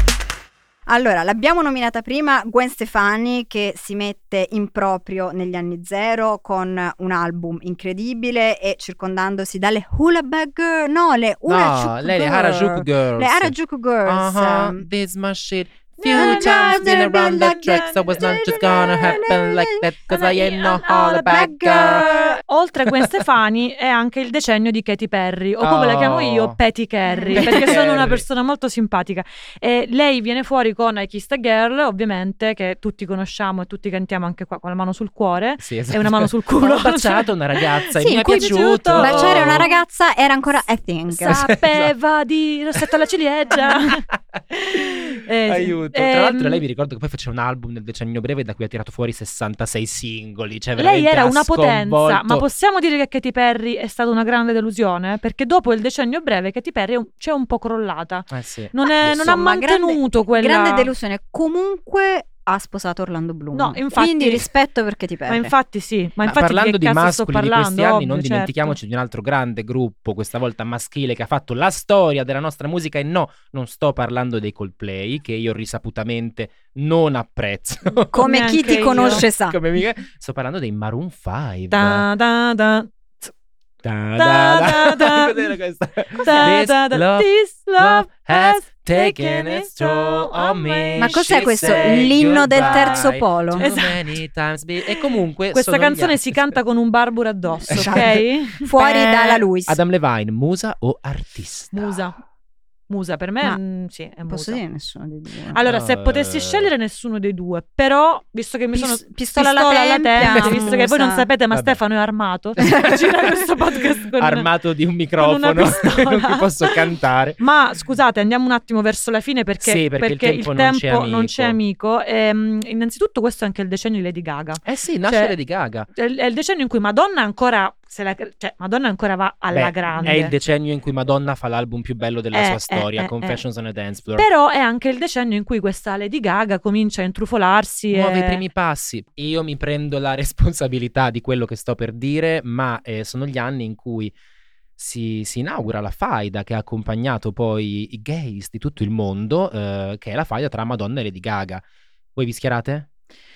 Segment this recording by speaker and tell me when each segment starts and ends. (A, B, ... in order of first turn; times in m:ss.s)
0:00.9-0:14.8 A
0:11.5-0:13.5 B
0:14.1-0:22.2 B
0:16.0-0:19.4 C
0:16.1-0:22.4 A
0:20.1-0:39.8 C
0:22.9-0:23.2 B
0:25.6-0:26.6 B
0:27.1-0:27.6 A
0:27.3-0:28.2 B
0:35.6-0:39.7 B
0:38.0-0:41.5 A
0:41.1-0:46.6 C
0:41.3-0:41.9 B
0:43.5-0:52.4 B
0:50.8-1:00.9 C
0:58.3-0:59.4 B
0:58.8-1:05.5 A
1:03.5-1:04.5 C
1:05.3-1:08.8 C
1:06.2-1:22.0 B
1:18.1-1:19.6 A
1:18.2-1:19.3 C
1:21.7-1:23.3 C
1:23.8-1:36.6 B
1:24.2-1:25.5 C
1:26.2-1:34.0 C
1:31.0-1:33.8 A
1:35.5-1:39.4 C
1:37.6-1:39.8 A
1:37.7-1:38.1 B
1:39.7-1:42.0 B
1:41.7-1:42.2 C
1:42.9-1:44.6 C
1:44.3-1:45.6 A
1:45.5-1:54.5 C
1:45.6-1:46.7 B
1:48.7-1:51.3 A
1:50.2-1:50.8 B
1:51.5-1:51.8 B
1:52.6-1:53.1 B
1:54.2-1:57.4 B
1:55.2-1:56.8 C
1:57.4-2:05.4 C
1:59.6-2:01.6 B
2:04.6-2:05.9 B
2:05.9-2:10.3 C
2:09.5-2:14.3 B
2:12.3-2:13.4 C
2:14.2-2:18.4 C
2:17.9-2:24.1 B
2:24.8-2:31.6 B
2:32.2-2:32.9 B